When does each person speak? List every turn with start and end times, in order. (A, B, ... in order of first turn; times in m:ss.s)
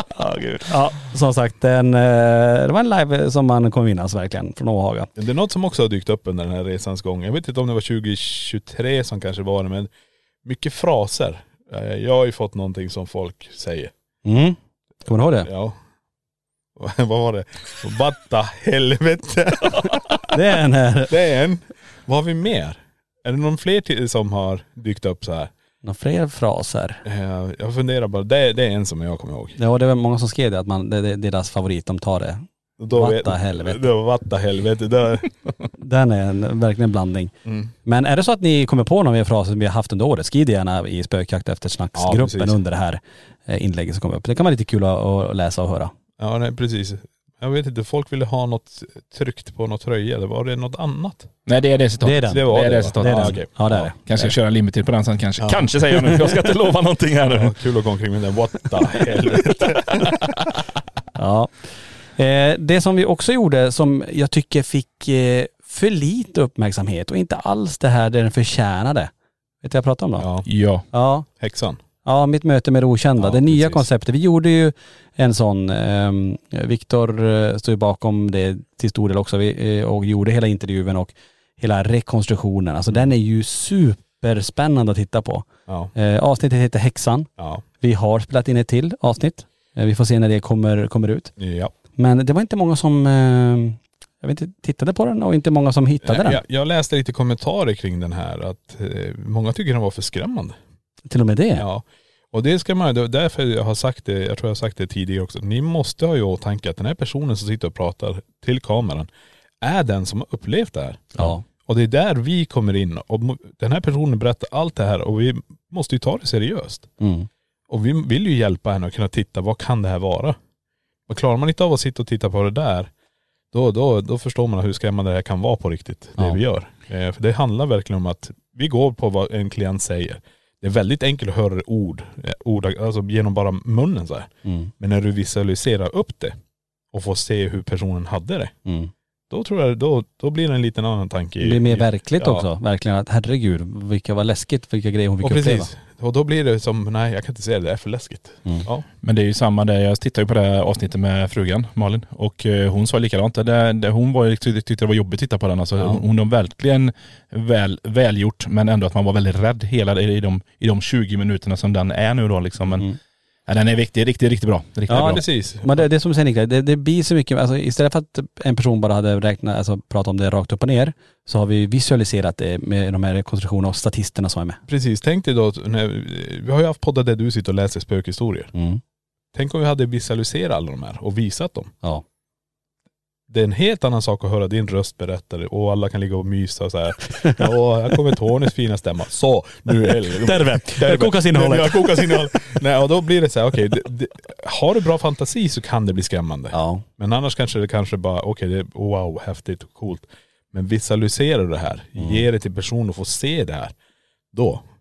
0:00.1-0:05.1 A
0:05.2-0:09.9 B
0:10.4-0:13.9 B
0:14.2-0:15.5 A
0:15.4-0:15.8 B
0:16.8-0:20.4 B
0:20.3-0:21.1 A
0:21.1-0:25.5 B
0:25.8-0:27.0 A
0:27.0-0:29.6 B
0:29.6-0:33.8 A
0:32.8-0:35.3 B
0:35.8-0:37.3 A
0:37.4-0:37.7 B
0:37.8-0:45.9 A
0:42.0-0:42.6 B
0:46.2-0:51.3 B
0:51.4-0:57.6 C
0:52.0-0:54.0 A
0:52.3-0:54.2 B
0:55.4-0:56.2 B
0:57.3-1:00.4 B
0:59.9-1:00.1 C
1:01.2-1:01.5 A
1:02.2-1:09.1 A
1:09.6-1:10.2 A
1:10.2-1:10.5 B
1:10.4-1:10.8 C
1:10.9-1:11.3 A
1:11.4-1:11.8 B
1:12.0-1:27.3 A
1:13.2-1:13.8 B
1:25.7-1:25.9 B
1:27.8-1:31.3 A
1:31.4-1:31.7 B
1:32.0-1:36.4 A
1:36.0-1:40.5 B
1:41.1-1:41.6 A
1:41.6-1:49.1 B
1:49.6-1:56.9 B
1:51.2-1:51.4 A
1:57.0-1:57.3 A
1:57.7-2:00.4 B
2:01.1-2:02.9 B
2:03.5-2:16.4 B
2:14.4-2:14.7 A
2:16.9-2:18.5 B
2:18.6-2:18.9 A
2:19.3-2:22.4 B
2:21.4-2:25.7 A
2:25.2-2:28.8 B
2:29.0-2:42.9 C
2:43.5-2:45.2 C
2:44.9-2:54.6 A
2:44.9-2:45.9 B
2:54.7-2:58.5 B
2:58.5-2:58.8 A
2:59.3-3:01.7 B
3:03.3-3:23.7 B
3:09.9-3:12.2 A
3:16.5-3:16.8 A
3:22.0-3:22.3 A
3:24.3-3:24.6 B